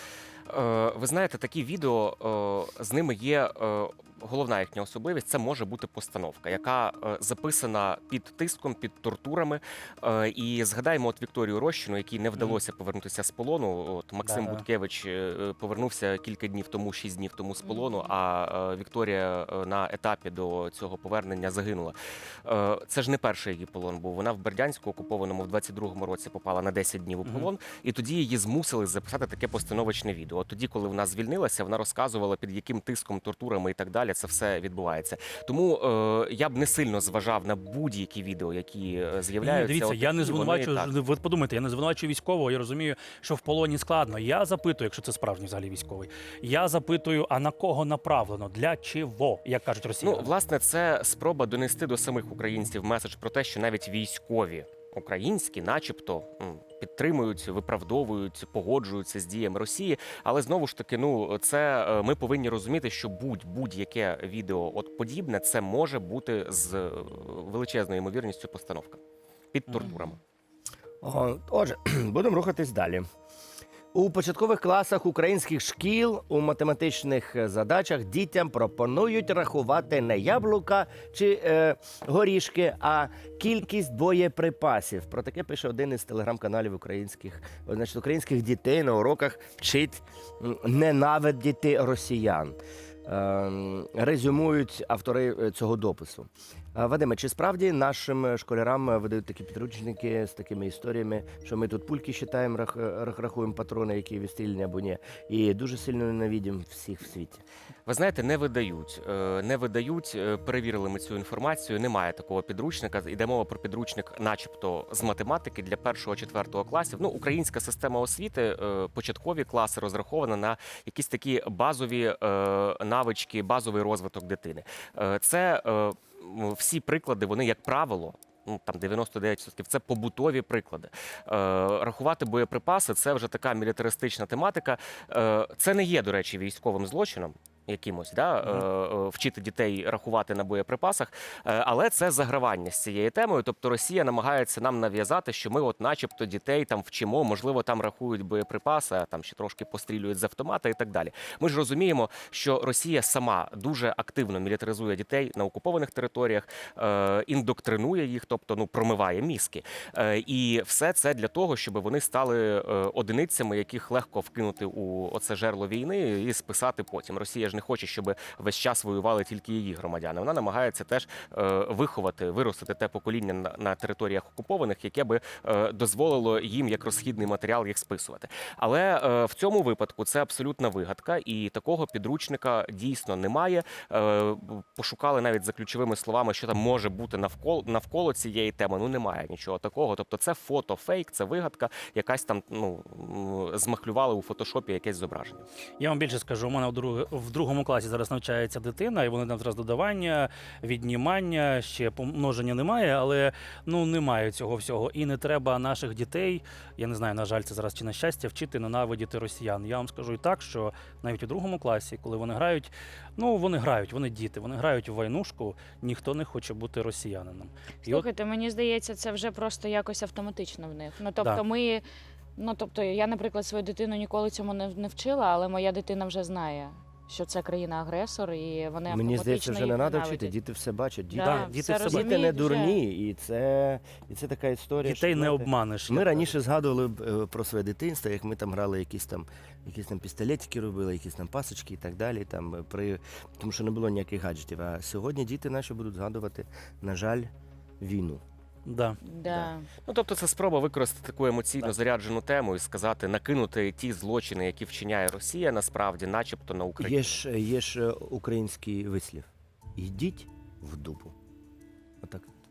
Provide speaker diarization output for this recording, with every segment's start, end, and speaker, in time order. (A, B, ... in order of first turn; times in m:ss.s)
0:00.5-0:40.9 A
0:14.2-0:14.6 B
0:17.6-0:18.1 C
0:39.4-0:50.3 B
0:50.0-1:09.0 A
1:09.5-1:10.2 A
1:11.0-1:13.0 D
1:13.9-1:47.4 D
1:47.8-3:15.4 A
3:15.8-3:38.0 B
3:37.8-3:41.8 C
3:42.4-3:50.3 C
3:48.9-4:07.3 D
3:51.1-3:52.8 C
3:51.2-3:52.1 B
3:54.8-3:56.3 B
4:07.8-4:08.2 D
4:08.7-4:09.0 B
4:09.0-4:09.7 C
4:09.3-4:17.2 A
4:16.8-4:21.1 D